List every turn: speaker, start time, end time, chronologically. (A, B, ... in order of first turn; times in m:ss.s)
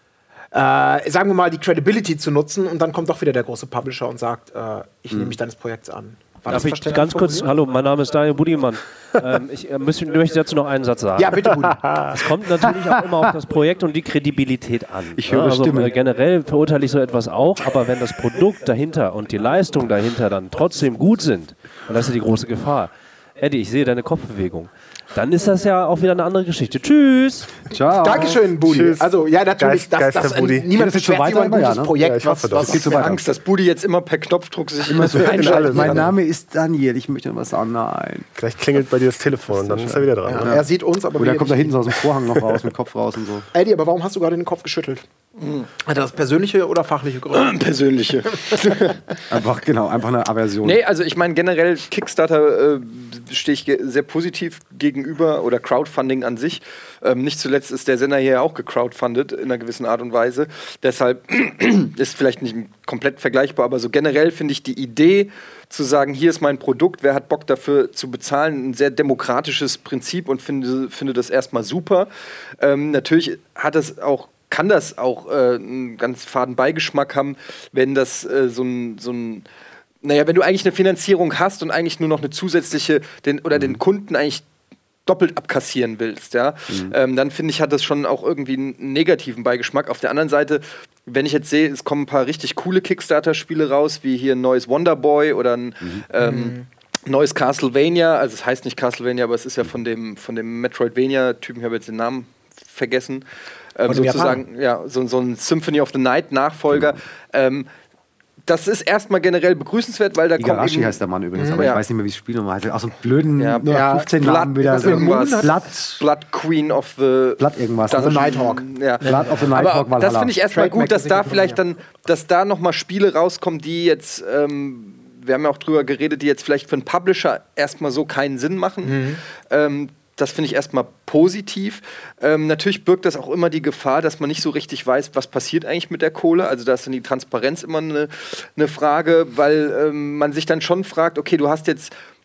0:00.5-0:07.5 A
0:06.5-0:11.5 B
0:11.1-0:12.0 A
0:11.8-0:12.1 C
0:12.1-0:27.7 B
0:15.2-0:15.9 D
0:27.7-0:28.4 D
0:28.0-0:33.2 A
0:28.6-0:30.7 C
0:30.7-0:31.9 D
0:32.0-0:32.9 C
0:32.5-0:33.2 D
0:32.7-0:36.0 E
0:34.9-0:38.3 D
0:35.2-0:36.0 C
0:38.4-0:40.6 C
0:39.5-0:43.4 D
0:40.2-0:41.8 A
0:43.5-0:45.0 A
0:45.4-0:45.7 E
0:45.8-0:47.6 A
0:47.3-0:49.0 E
0:48.5-0:48.8 A
0:49.3-0:50.8 D
0:50.6-1:19.5 E
1:20.0-1:24.4 E
1:25.0-1:43.2 E
1:26.7-1:26.9 D
1:36.2-1:36.6 A
1:43.8-1:47.7 E
1:43.9-1:44.4 A
1:48.4-1:51.0 E
1:50.4-1:56.0 D
1:51.4-1:51.8 A
1:51.6-1:51.8 E
1:53.4-1:53.6 E
1:53.6-1:55.6 A
1:54.2-2:21.9 E
1:57.4-1:58.4 D
1:57.9-1:59.5 A
1:59.0-2:00.3 D
2:00.5-2:01.6 A
2:08.8-2:09.2 A